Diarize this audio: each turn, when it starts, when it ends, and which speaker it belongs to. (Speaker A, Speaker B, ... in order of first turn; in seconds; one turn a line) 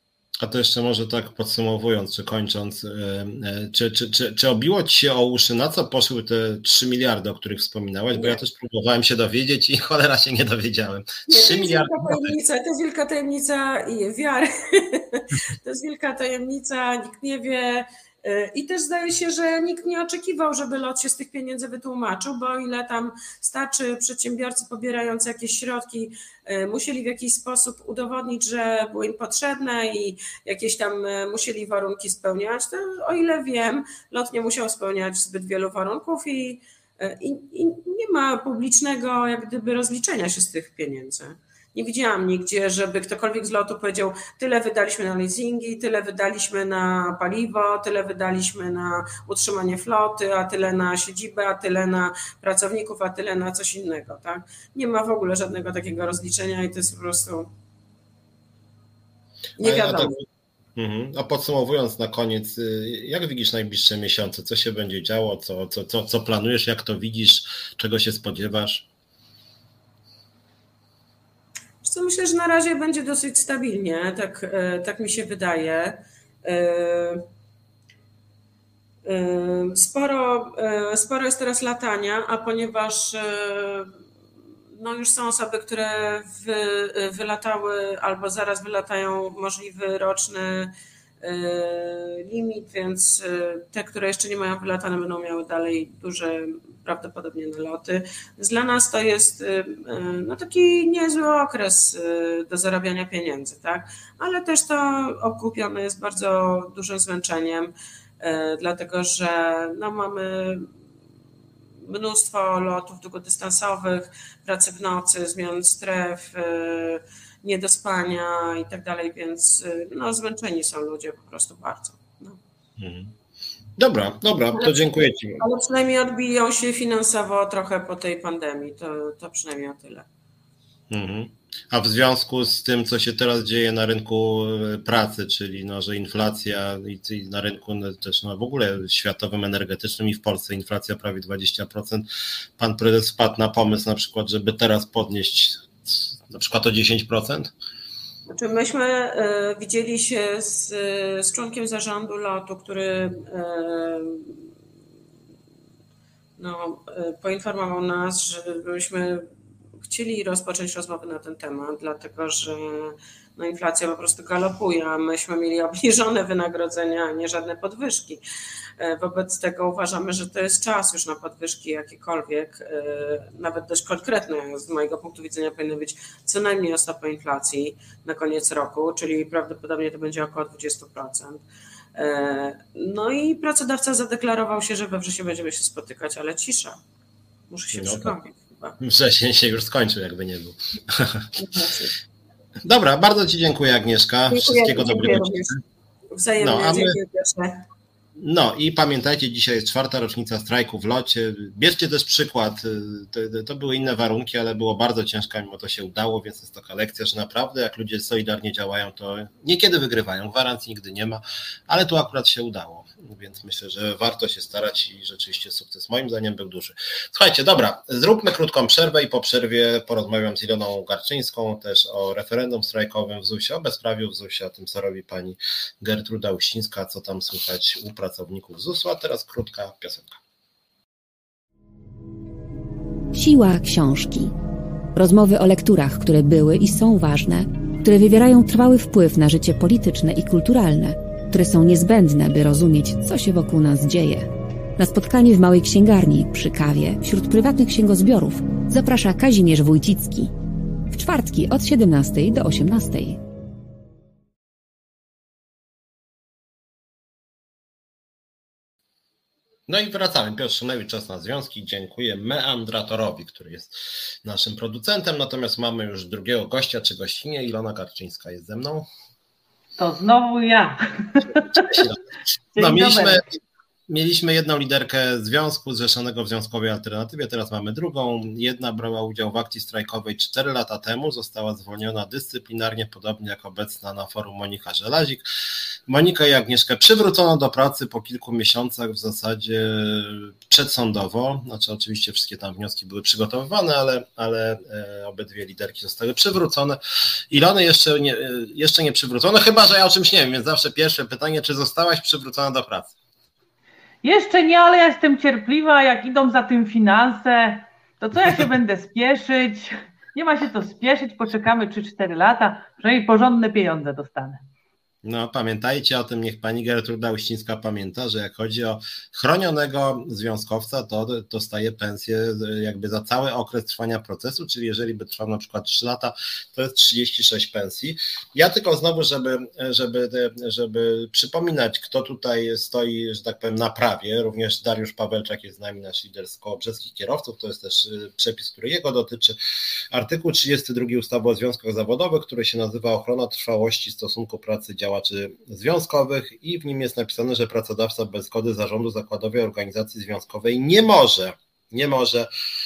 Speaker A: 0.4-12.3
Speaker B: 8.1-8.4
Speaker B: 11.3-57.5
Speaker B: 59.6-60.2
Speaker A: 59.6-60.2
Speaker A: 60.8-68.9
Speaker B: 71.8-77.2
Speaker B: 79.0-83.9
Speaker B: 84.8-110.7
Speaker B: 111.8-122.4
Speaker A: 122.8-123.1
Speaker A: 123.8-125.4
Speaker B: 124.5-130.1
Speaker A: 130.9-147.5
Speaker B: 148.3-154.4
Speaker B: 156.4-159.2
Speaker B: 159.8-168.2
Speaker B: 168.8-181.4
Speaker B: 181.9-186.8
Speaker B: 187.5-188.8
Speaker A: 187.7-188.2
Speaker A: 188.8-191.3
Speaker B: 191.4-191.9
Speaker A: 192.7-195.5
Speaker B: 194.3-195.6
Speaker B: 196.1-197.6
Speaker A: 196.4-197.0
Speaker A: 198.2-230.2
Speaker C: 233.1-234.3
Speaker C: 234.9-250.3
Speaker C: 250.9-253.2
Speaker A: 259.7-268.9
Speaker D: 269.8-271.9
Speaker A: 271.5-271.9
Speaker D: 272.6-273.2
Speaker A: 272.6-273.2
Speaker A: 273.9-285.3
Speaker A: 285.9-296.8
Speaker A: 297.3-302.9
Speaker D: 304.0-314.4
Speaker A: 315.0-339.4
Speaker A: 339.9-352.3